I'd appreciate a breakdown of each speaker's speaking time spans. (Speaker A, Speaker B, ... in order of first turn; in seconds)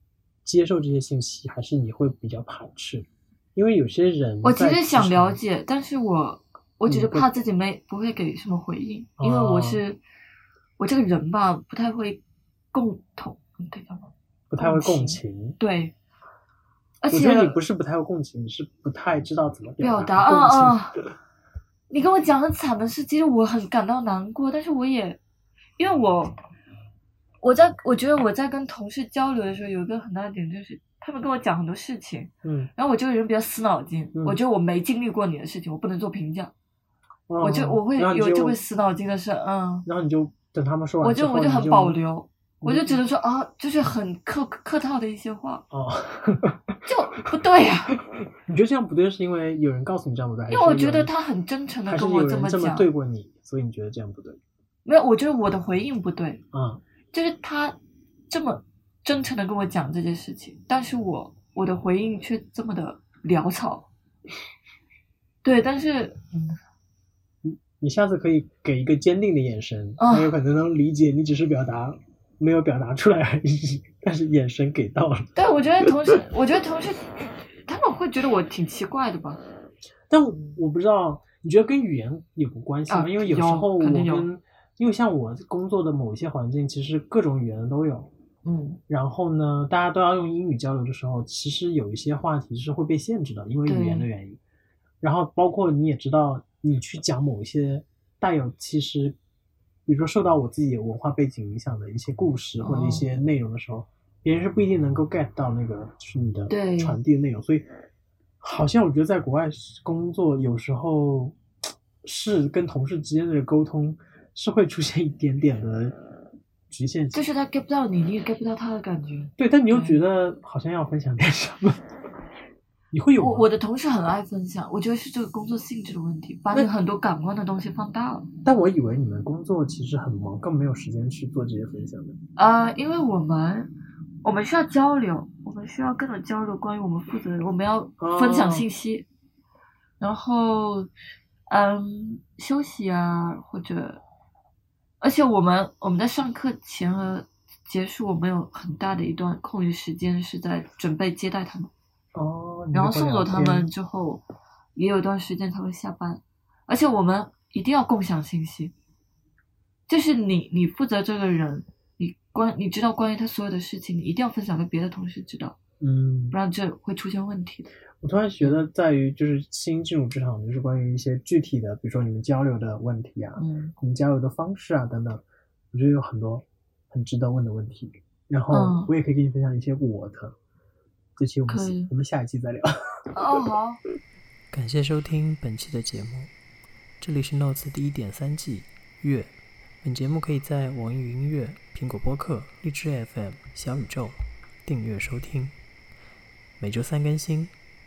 Speaker A: 0.5-5.4, 6.9-7.3, 9.2-9.8, 14.5-15.6, 17.1-21.1, 32.4-32.7, 37.3-38.6, 39.9-42.0, 42.6-43.0, 45.7-46.6, 48.4-51.1, 51.9-54.4, 56.5-56.8, 67.4-76.2, 80.1-88.1, 88.9-94.4, 95.0-99.2, 99.9-107.7, 108.4-111.4, 112.0-116.0, 116.7-117.2, 119.4-121.8, 122.9-123.5, 128.4-132.2, 138.0-138.7, 152.1-153.7, 165.8-166.4, 168.0-180.3, 181.2-183.1
Speaker B: 4.4-10.0, 10.8-12.2, 12.7-15.9, 17.0-17.6, 19.8-21.0, 21.9-25.2, 25.8-26.4, 27.4-36.5, 37.4-39.9, 41.0-45.6, 46.9-48.0, 50.5-52.9, 54.9-56.4, 57.1-57.8, 58.3-63.9, 65.4-66.5, 70.0-70.3, 75.3-77.1, 77.7-79.4, 82.9-84.3, 88.5-88.8, 93.7-94.1, 102.6-103.1, 106.5-107.0, 117.1-120.0, 123.2-128.3, 132.4-133.7, 134.2-139.1, 140.0-140.9, 141.5-144.0, 145.0-151.7, 152.7-154.2, 154.8-158.7, 159.9-165.6, 166.3-167.7, 173.4-173.7, 178.5-178.9, 181.5-181.9, 183.1-183.8
Speaker C: 184.5-186.3, 187.0-195.6, 196.6-197.5